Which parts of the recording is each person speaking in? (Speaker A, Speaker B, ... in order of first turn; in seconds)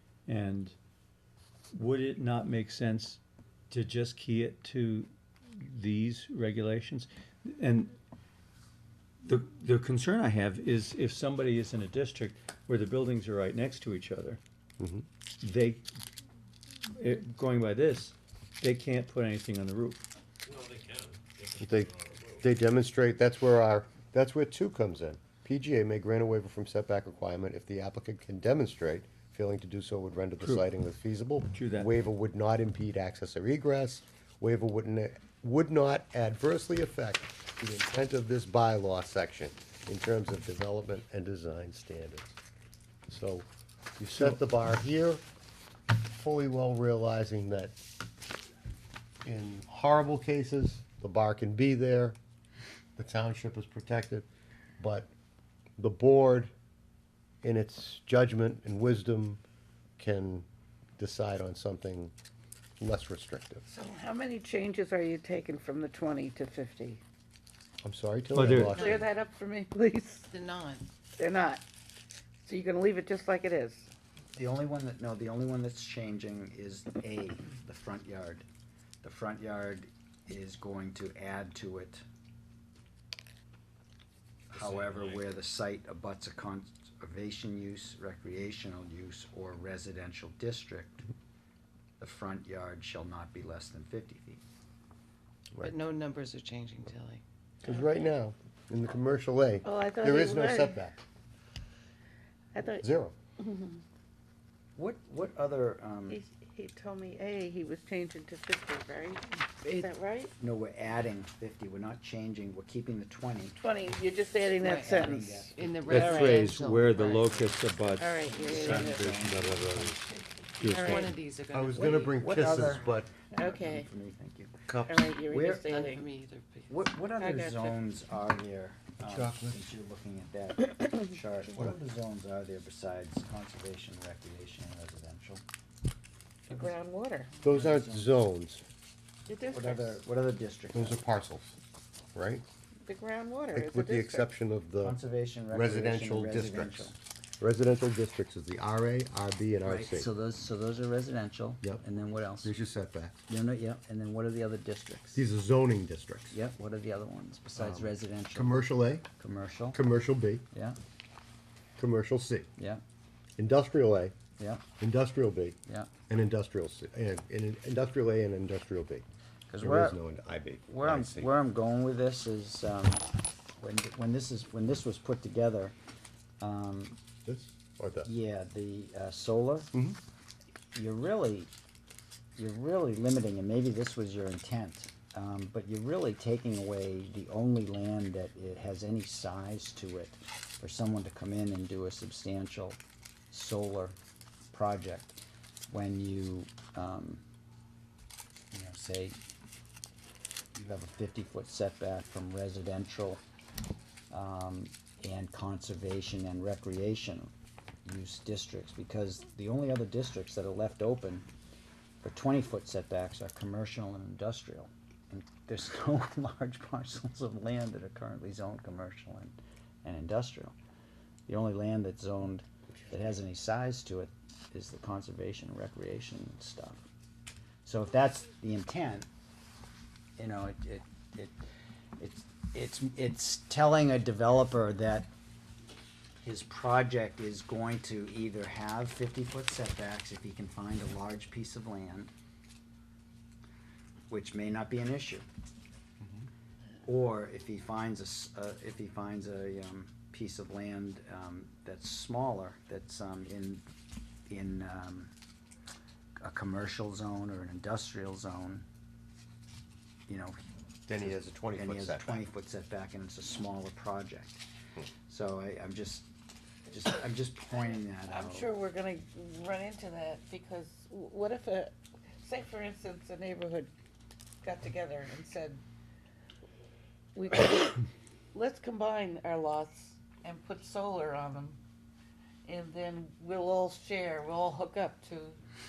Speaker A: 0.2-0.8, 1.7-7.9, 9.2-14.4, 15.4-15.8, 16.9-20.0, 31.5-31.9, 44.1-44.4, 68.3-68.8, 115.9-120.0, 120.6-121.1
Speaker B: 14.8-15.1, 21.6-42.4, 43.1-43.5, 44.0-45.2, 46.1-47.8, 49.2-52.2, 53.0-54.3, 54.8-55.1, 55.8-56.5, 57.4-59.4, 60.0-60.5, 61.0-62.1, 62.8-63.6, 67.8-69.1, 97.6-101.0, 102.8-103.1, 121.5-123.1, 124.7-125.1, 129.0-129.7, 131.6-131.8, 137.4-138.6, 140.7-141.6, 142.1-142.4, 143.5-145.0, 145.5-150.1, 152.4-153.2, 155.1-156.4, 157.6-159.1, 159.7-160.4, 161.8-162.5, 163.4-164.1, 164.8-169.1, 169.6-171.3, 177.2-178.1, 260.9-262.2
Speaker C: 20.4-22.4, 84.5-85.2
Speaker D: 63.7-67.0, 68.7-70.3, 71.2-71.6, 72.4-73.9, 99.6-100.8, 102.5-102.8, 103.4-103.8, 106.1-110.3, 113.6-115.3, 115.9-116.4, 118.0-119.2, 120.7-121.1, 123.3-123.9, 124.9-126.0, 127.2-127.8, 136.5-137.4, 139.3-140.0, 142.8-144.3, 268.0-273.7, 274.4-275.6, 277.1-281.6, 282.4-285.4
Speaker E: 68.7-69.1, 70.3-70.9, 95.6-97.2, 109.6-109.9, 114.7-117.5, 120.6-122.5, 125.6-126.9
Speaker F: 74.3-78.4, 79.0-82.0, 84.5-91.0, 92.0-94.4, 104.8-106.2, 110.4-113.6, 114.6-115.8, 118.2-120.5, 121.8-124.7, 125.2-125.7, 126.7-135.4, 137.5-138.1, 139.5-141.0, 144.8-146.9, 149.6-152.5, 153.3-155.2, 156.3-159.8, 160.5-160.8, 162.6-162.8, 164.4-164.7, 165.7-165.9, 169.5-170.0, 170.7-173.1, 173.6-175.7, 176.4-177.0, 178.0-179.7, 180.7-181.5, 182.4-192.8, 193.3-193.9, 194.5-195.2, 195.7-197.2, 198.5-199.2, 200.5-203.2, 204.1-207.3, 207.8-211.3, 212.0-220.5, 221.3-226.9, 227.6-229.1, 230.2-231.4, 232.0-235.1, 236.2-242.1, 244.1-245.2, 246.8-253.6, 254.3-255.1, 256.2-258.6, 260.1-260.4, 261.0-264.4, 265.1-266.1, 266.6-268.5